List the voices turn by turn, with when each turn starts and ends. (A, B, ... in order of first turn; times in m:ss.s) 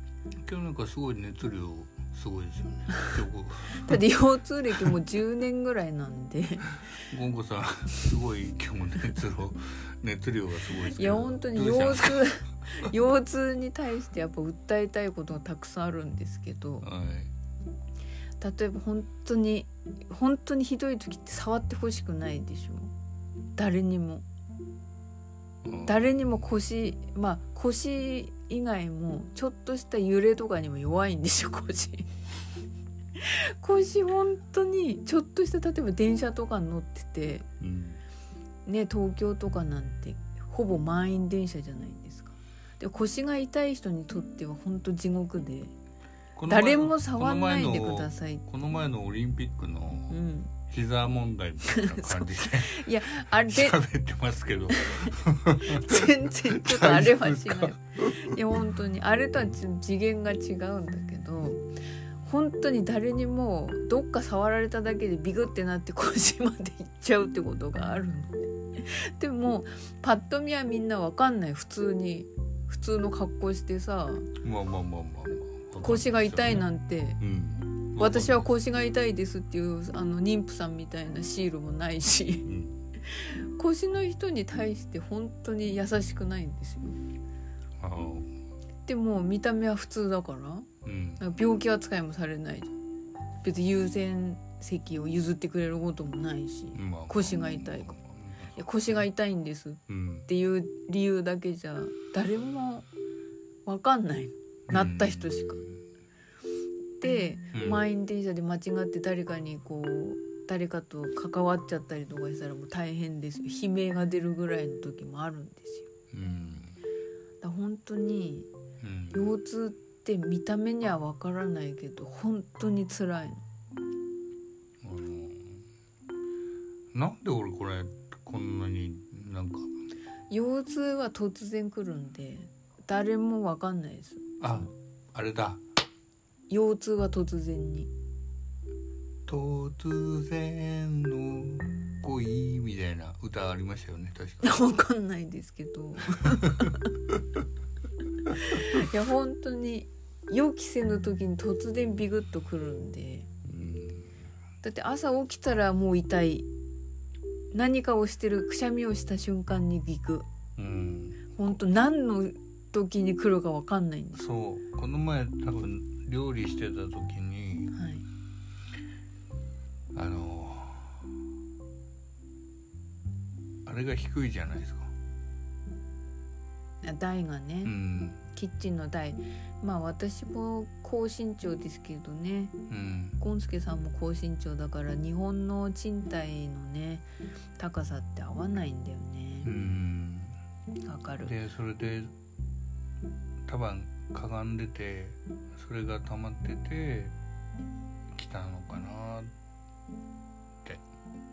0:00.4-0:04.0 A
0:03.7-0:06.9 B
0:06.9-0:12.3 A
0:10.7-0:16.9 B
0:16.8-0:17.3 A
0:18.4-0:22.9 B
0:23.6-0:24.3 B
0:25.6-0:26.4 A
0:25.8-0:32.1 B
0:33.2-0:37.5 B
0:37.6-0:38.0 A
0:38.6-0:45.7 B
0:46.4-0:58.4 A
0:46.5-0:48.4 B
0:50.1-0:50.5 B
0:51.6-0:53.8 B
0:54.7-1:01.7 B
1:02.2-1:14.4 B
1:14.4-1:16.7 A
1:15.8-1:17.2 B
1:17.2-1:18.5 A
1:18.0-1:22.5 B
1:22.4-1:22.8 A
1:23.0-1:27.0 B
1:27.8-1:28.4 A
1:28.9-1:30.7 B
1:30.8-1:31.2 A
1:31.2-1:32.7 B
1:33.4-1:38.0 B
1:36.8-1:38.6 A
1:38.5-1:42.9 B
1:39.9-1:40.3 A
1:43.7-1:45.6 B
1:44.7-1:45.8 A
1:47.0-1:55.9 B
1:47.5-1:47.8 A
1:56.1-1:56.8 A
1:57.4-1:58.5 B
1:58.8-1:59.3 A
1:59.1-2:03.4 B
2:04.8-2:05.6 A
2:06.9-2:09.7 A
2:10.3-2:14.7 B
2:14.4-2:15.6 A
2:16.5-2:17.9 B
2:19.3-2:24.6 A
2:24.4-2:26.9 B
2:28.2-2:33.3 B
2:33.4-2:34.1 A
2:34.6-2:36.5 B
2:37.5-2:40.3 B
2:40.6-2:41.2 A
2:41.3-2:44.2 B
2:44.1-2:47.7 A
2:47.7-2:48.1 B
2:49.9-2:51.1 A
2:53.6-2:54.9 A
2:56.8-2:57.7 B
2:57.6-2:58.2 A
2:58.3-3:02.6 B
3:02.7-3:03.2 A
3:03.2-3:07.1 B
3:07.6-3:09.5 B
3:09.4-3:10.4 A
3:10.8-3:11.4 B
3:11.2-3:12.1 A
3:13.4-3:17.2 A
3:18.1-3:19.3 A